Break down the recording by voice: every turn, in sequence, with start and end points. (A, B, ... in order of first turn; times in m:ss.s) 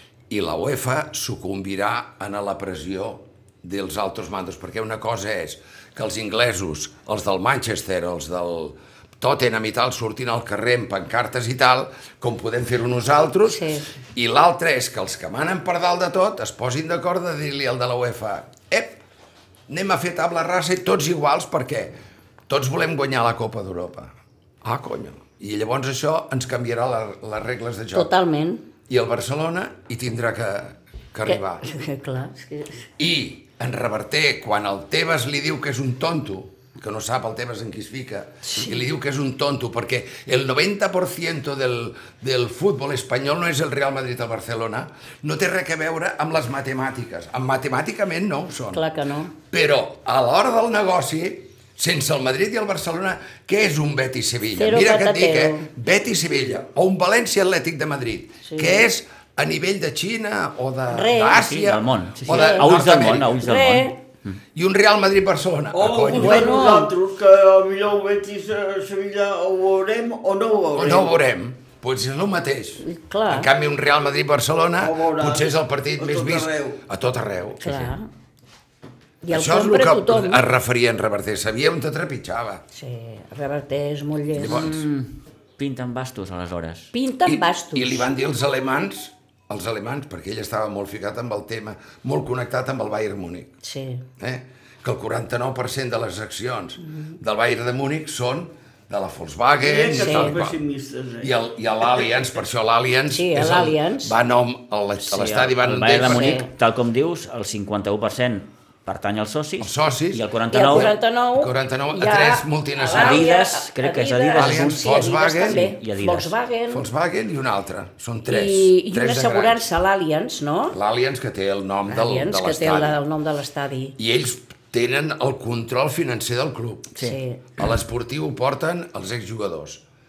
0:00.3-0:19.0 A
0:13.4-0:13.9 B
0:19.7-0:22.0 A
0:22.5-0:24.1 A
0:24.6-0:28.1 A
0:27.9-0:28.6 B
0:28.9-0:31.7 A
0:31.3-0:32.9 B
0:33.0-0:48.8 A
0:38.4-0:38.9 B
0:48.7-0:49.3 B
0:49.4-1:03.4 A
0:54.6-0:55.7 B
0:58.4-0:58.9 B
1:00.9-1:01.4 B
1:01.3-1:04.4 C
1:02.3-1:02.7 B
1:03.4-1:04.0 B
1:04.6-1:06.6 A
1:05.7-1:11.1 D
1:06.1-1:06.9 B
1:10.8-1:17.7 A
1:12.8-1:13.5 B
1:14.8-1:16.8 D
1:17.6-1:18.1 B
1:19.2-1:20.4 B
1:19.3-1:22.6 A
1:22.7-1:24.8 B
1:24.3-1:24.8 A
1:24.4-1:26.9 C
1:26.9-1:28.1 B
1:27.3-1:33.5 A
1:33.6-1:34.0 B
1:34.2-1:40.6 A
1:36.8-1:37.2 B
1:39.6-1:41.3 D
1:39.9-1:40.4 B
1:41.2-1:46.4 A
1:43.1-1:44.2 B
1:45.0-1:50.9 C
1:46.0-1:46.5 B
1:49.6-1:53.2 A
1:50.5-1:56.8 B
1:52.9-1:56.3 C
1:54.4-1:55.7 A
1:56.7-1:59.6 A
1:58.3-2:00.8 B
2:00.7-2:03.0 A
2:01.9-2:04.0 B
2:04.0-2:07.0 A
2:07.0-2:07.4 B
2:07.6-2:09.8 A